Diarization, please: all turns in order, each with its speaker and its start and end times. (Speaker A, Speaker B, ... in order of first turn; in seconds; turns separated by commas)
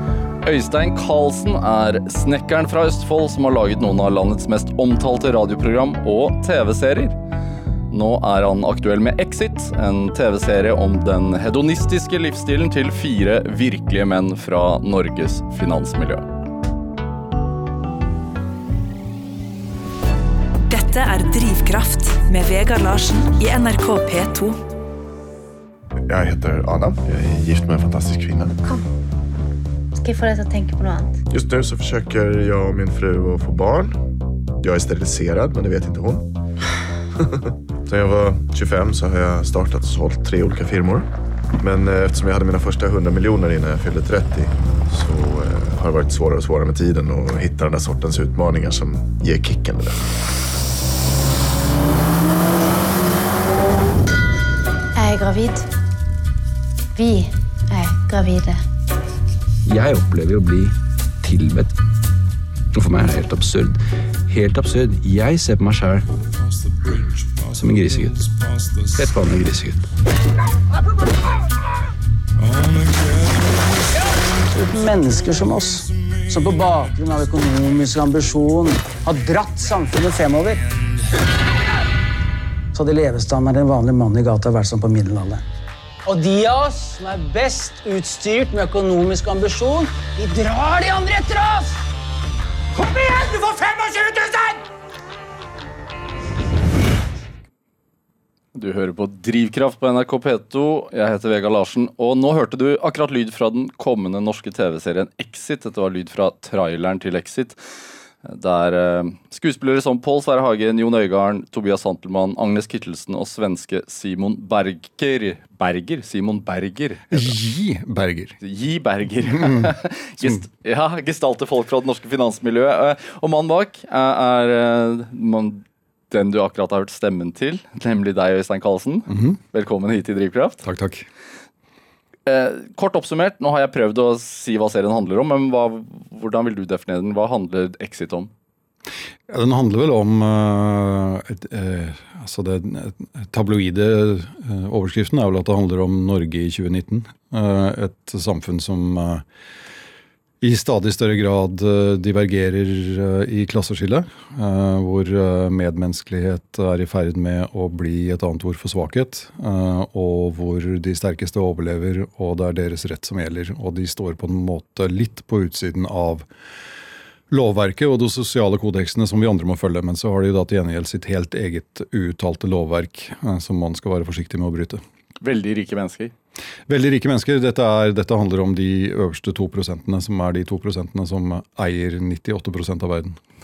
Speaker A: 0.4-7.2, Speaker A: 7.9-16.2, Speaker B: 20.7-24.6, Speaker C: 26.0-28.6, Speaker D: 30.0-31.2, Speaker C: 31.3-34.0, Speaker C: 34.6-36.3, Speaker C: 37.3-41.1, Speaker C: 41.6-50.0, Speaker D: 55.0-55.7, Speaker D: 57.0-58.6, Speaker E: 59.6-61.8, Speaker E: 62.7-66.0, Speaker E: 66.8-68.3, Speaker E: 68.9-69.9, Speaker F: 74.5-80.6, Speaker F: 82.7-85.4, Speaker F: 86.0-91.8, Speaker F: 92.7-94.6, Speaker A: 98.5-107.6, Speaker A: 108.2-117.3, Speaker G: 117.1-118.4, Speaker A: 118.4-130.6, Speaker G: 119.3-119.7, Speaker G: 129.1-129.4, Speaker G: 130.6-131.1, Speaker A: 132.2-138.3, Speaker G: 139.3-149.2, Speaker G: 150.4-166.3, Speaker G: 167.3-174.8, Speaker A: 175.2-176.1, Speaker G: 176.7-183.2